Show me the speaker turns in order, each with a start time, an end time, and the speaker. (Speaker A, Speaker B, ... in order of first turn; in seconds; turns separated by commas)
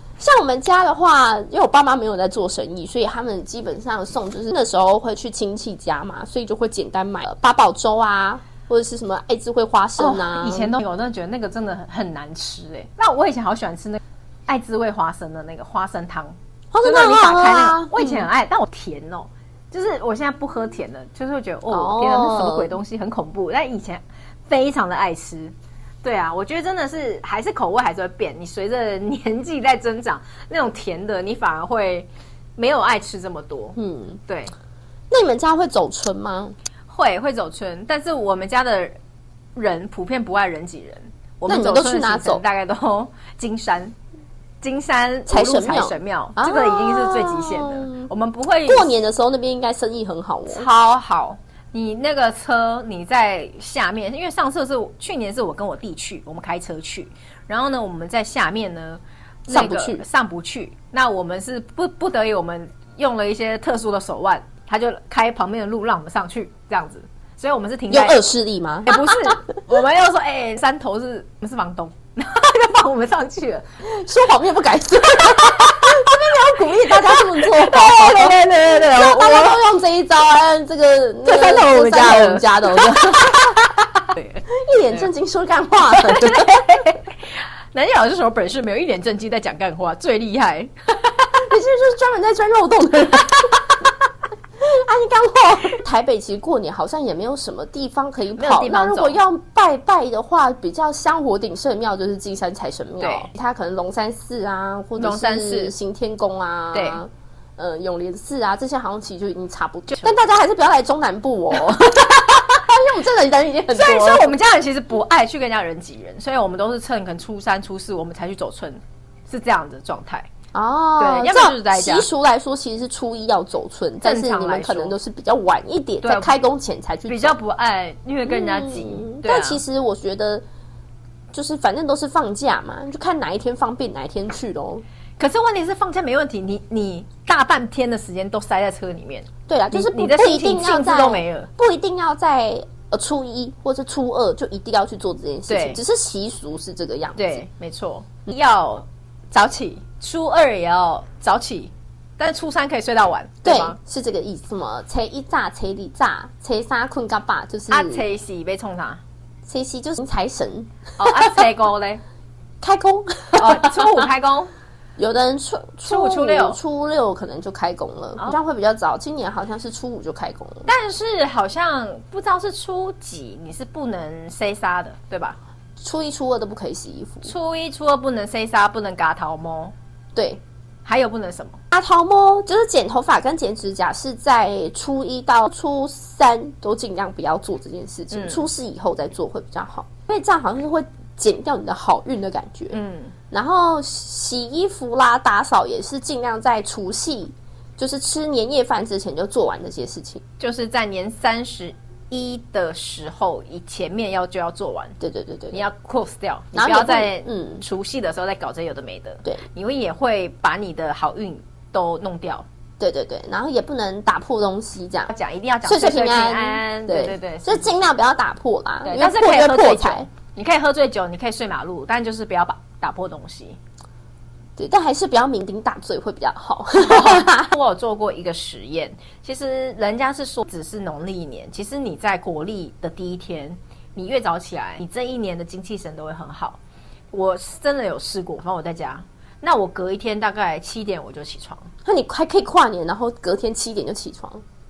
Speaker A: 0.2-10.7, Speaker B: 10.0-33.8, Speaker A: 16.7-18.2, Speaker A: 21.7-22.8, Speaker A: 33.8-34.2, Speaker B: 34.3-34.5, Speaker A: 35.1-36.5, Speaker B: 36.9-39.0, Speaker B: 39.6-43.9, Speaker A: 41.5-42.4, Speaker B: 44.6-48.9, Speaker A: 45.3-48.1, Speaker A: 48.7-50.7, Speaker B: 50.5-68.2, Speaker A: 59.5-60.0, Speaker A: 67.9-69.6, Speaker B: 68.9-73.7, Speaker A: 73.8-83.6, Speaker B: 75.8-79.6, Speaker B: 81.2-83.4, Speaker A: 84.5-86.5, Speaker B: 85.9-87.2, Speaker B: 87.7-90.7, Speaker A: 91.4-93.7, Speaker A: 94.6-114.3, Speaker B: 98.3-99.2, Speaker B: 103.0-103.3, Speaker B: 105.0-105.7, Speaker B: 106.7-107.0, Speaker B: 109.9-110.2, Speaker B: 113.7-120.3, Speaker A: 120.5-127.4, Speaker B: 121.0-122.1, Speaker B: 124.0-125.0, Speaker B: 126.0-126.3, Speaker B: 127.1-129.6, Speaker A: 128.3-130.4, Speaker A: 131.3-134.8, Speaker B: 135.2-141.5, Speaker A: 139.5-147.4, Speaker B: 145.5-145.8, Speaker B: 147.2-153.8, Speaker A: 153.4-158.0, Speaker B: 157.7-159.0, Speaker A: 159.5-161.5, Speaker B: 161.0-162.0, Speaker A: 162.6-164.0, Speaker B: 163.3-164.5, Speaker A: 165.0-170.7, Speaker B: 165.9-166.6, Speaker B: 170.7-175.4, Speaker A: 175.8-177.3, Speaker B: 177.2-179.7, Speaker A: 180.2-180.4, Speaker B: 180.8-181.6, Speaker A: 181.7-192.8, Speaker B: 188.1-188.5, Speaker B: 192.7-193.1, Speaker A: 193.3-200.2, Speaker B: 200.4-204.9, Speaker A: 205.0-205.7, Speaker B: 205.5-212.5, Speaker A: 206.6-207.6, Speaker A: 212.8-215.1, Speaker B: 215.1-217.8, Speaker A: 215.6-220.1, Speaker B: 218.8-223.6, Speaker A: 224.6-227.5, Speaker B: 226.8-236.6, Speaker B: 237.1-241.7, Speaker A: 241.8-244.4